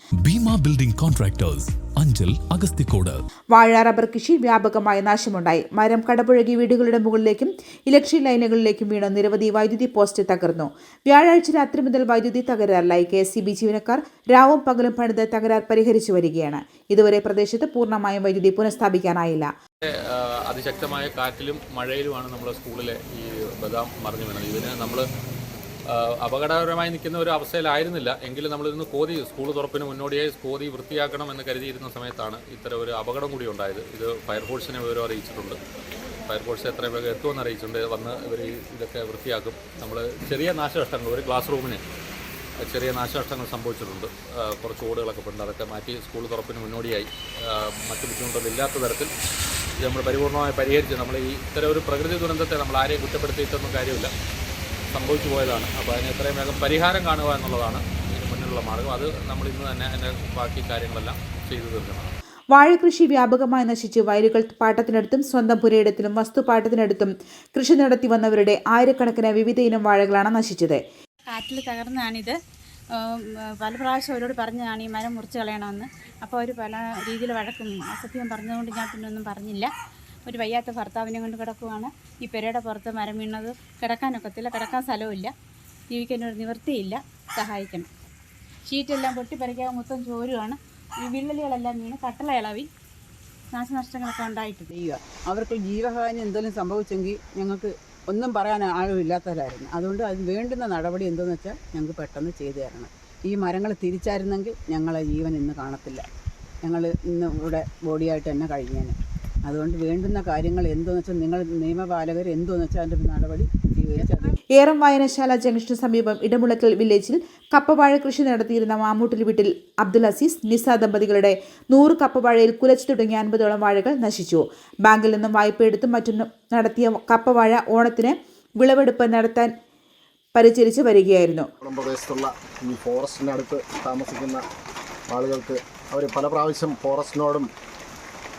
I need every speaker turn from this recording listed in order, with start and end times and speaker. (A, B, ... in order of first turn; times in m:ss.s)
0:00.2-0:03.2 A
0:03.5-0:19.5 B
0:20.1-0:25.0 C
0:25.9-0:35.6 C
0:36.3-0:41.8 C
0:42.6-0:49.1 C
0:49.8-0:54.1 C
0:54.9-1:02.1 C
1:02.5-1:10.8 B
1:11.3-1:12.3 D
1:13.6-1:19.7 D
1:20.3-1:25.3 D
1:25.9-1:27.8 D
1:28.7-1:32.6 D
1:33.5-1:34.6 D
1:34.7-1:46.0 E
1:46.6-1:54.3 E
1:54.5-2:09.5 B
2:10.3-2:11.5 B
2:11.6-2:14.4 F
2:15.1-2:17.5 F